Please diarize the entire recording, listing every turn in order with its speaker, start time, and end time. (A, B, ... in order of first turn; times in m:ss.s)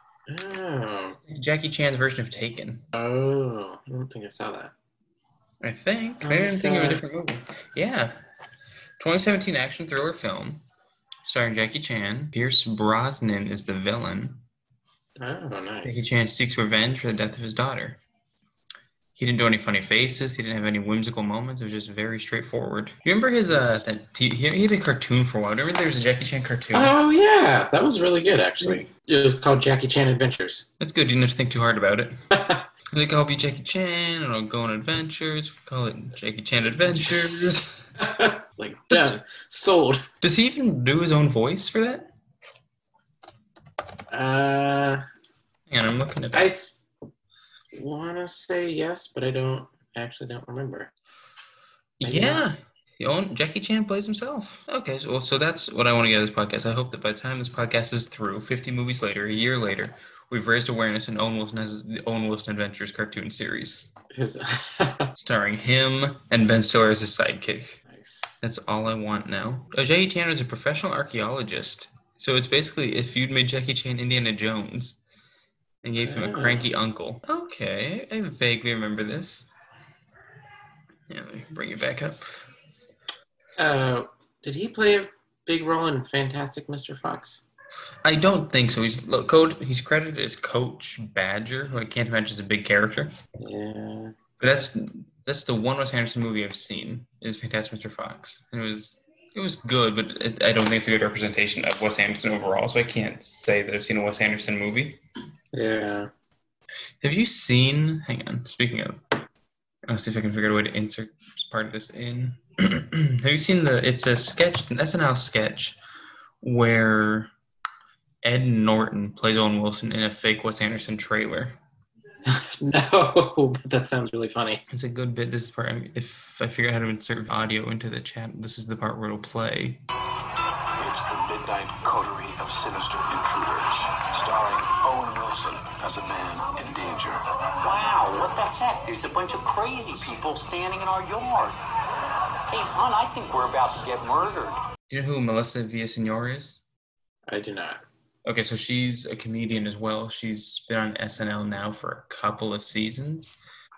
0:00.3-0:01.2 A
0:01.3-0:02.9 B
0:02.9-0:04.7 A
0:05.6-0:08.2 B
0:06.2-0:07.0 A
0:09.0-0:10.6 B
0:11.2-0:14.4 B
0:15.2-0:16.0 A
0:15.8-0:18.0 B
0:19.2-0:26.9 B
0:23.5-0:23.8 A
0:26.7-0:30.7 A
0:30.8-0:32.2 B
0:32.3-0:32.6 A
0:32.9-0:37.9 B
0:38.0-0:40.1 A
0:40.2-0:42.1 B
0:44.1-0:45.0 A
0:45.7-0:46.5 B
0:46.3-0:46.7 A
0:47.7-0:50.9 A
0:52.0-1:03.9 B
0:52.0-0:52.5 A
1:04.1-1:05.1 A
1:05.2-1:07.8 B
1:07.9-1:08.3 A
1:08.4-1:15.0 B
1:15.8-1:19.5 B
1:16.0-1:16.7 A
1:21.1-1:22.3 B
1:23.6-1:27.4 A
1:28.0-1:33.2 B
1:33.4-1:34.2 A
1:34.4-1:45.0 B
1:45.5-1:46.1 A
1:47.0-1:49.0 B
1:49.9-1:55.8 B
1:56.4-1:57.3 B
1:58.2-2:01.5 B
2:02.3-2:04.6 A
2:04.7-2:09.8 B
2:10.8-2:17.2 C
2:17.6-2:21.6 D
2:22.5-2:24.6 D
2:24.9-2:26.6 B
2:27.3-2:27.8 A
2:28.3-2:33.4 B